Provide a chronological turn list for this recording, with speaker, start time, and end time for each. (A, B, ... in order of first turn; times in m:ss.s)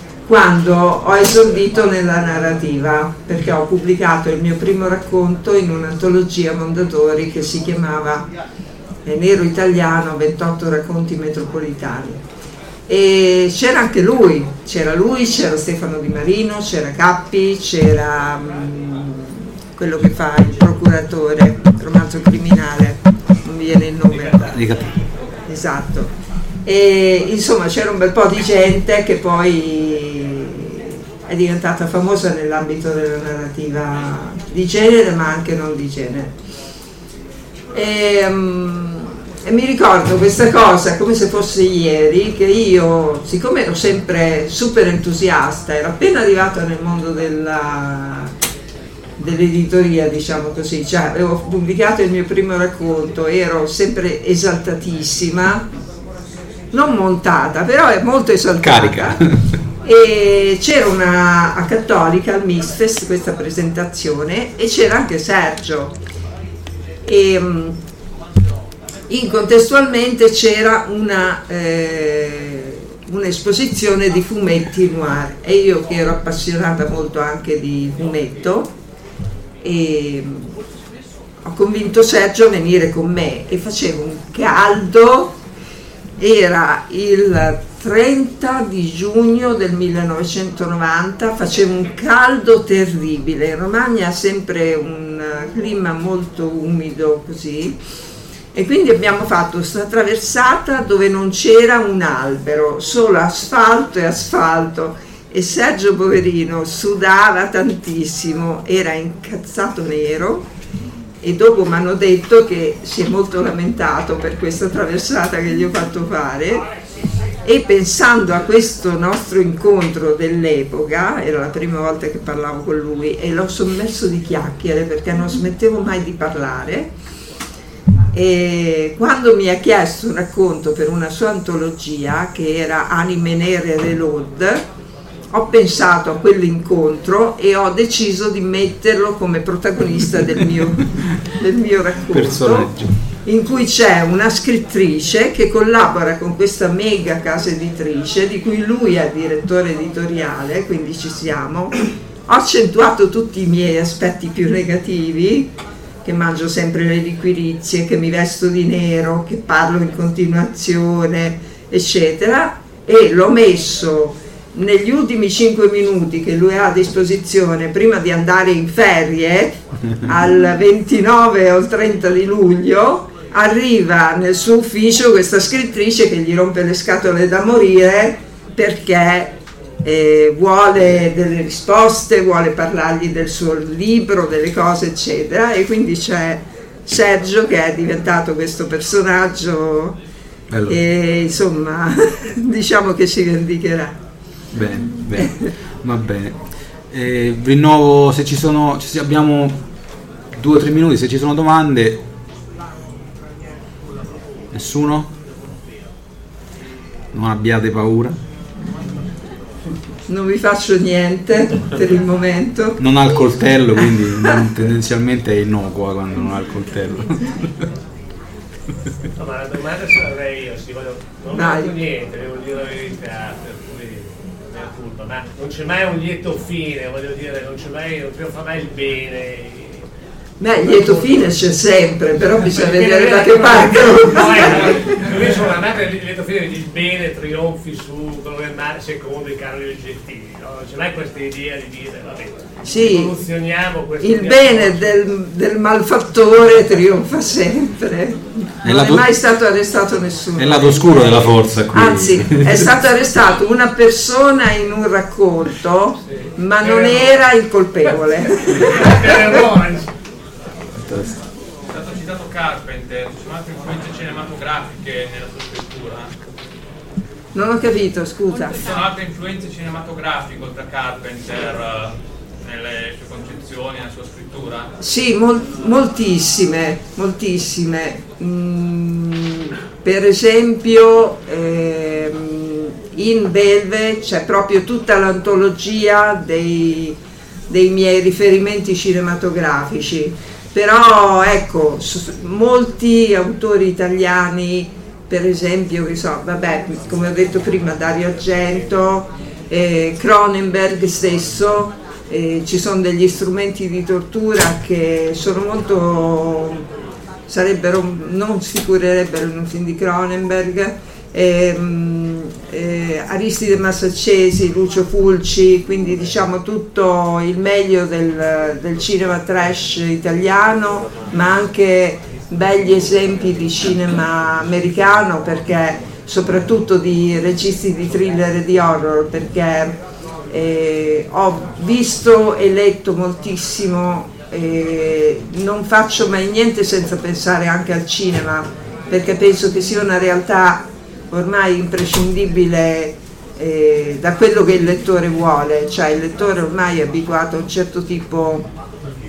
0:00.3-0:08.3 A
0:09.0-0:12.2 A
0:12.9-0:24.6 A
0:24.3-0:24.9 B
0:25.5-0:26.1 A
0:26.6-0:36.4 A
0:37.7-0:48.3 A
0:49.2-0:55.7 A
0:56.7-0:59.2 A
0:58.6-0:59.4 B
0:59.8-1:06.0 A
1:07.0-1:07.8 A
1:09.1-1:18.8 A
1:19.6-1:20.6 A
1:21.4-1:25.4 A
1:26.2-1:37.8 A
1:38.5-1:50.5 A
1:51.2-1:56.7 A
1:57.4-2:06.9 A
2:08.1-2:14.6 A
2:15.3-2:22.7 A
2:22.1-2:22.9 B
2:23.2-2:31.8 A
2:32.3-2:35.5 A
2:36.0-3:10.0 A
3:10.5-3:10.8 B
3:10.7-3:14.0 A
3:14.5-3:16.4 B
3:15.2-3:15.5 A
3:16.9-3:19.6 B
3:20.3-3:22.0 B
3:24.5-3:25.1 B
3:27.1-3:28.2 B
3:30.1-3:32.9 A
3:32.8-3:37.7 B
3:33.8-3:34.5 A
3:39.2-3:49.9 C
3:41.3-3:41.8 A
3:50.4-3:55.3 A
3:50.6-3:51.3 C
3:52.2-4:05.0 C
4:02.6-4:03.1 A
4:04.0-4:19.4 A
4:08.6-4:09.1 B
4:10.4-4:12.7 B
4:16.1-4:17.2 C
4:18.4-4:19.9 C
4:20.7-4:21.2 B
4:21.7-4:26.2 D
4:27.3-4:28.6 A
4:28.6-4:34.7 D
4:34.8-5:06.6 A
5:07.3-5:29.8 A
5:30.3-5:48.5 A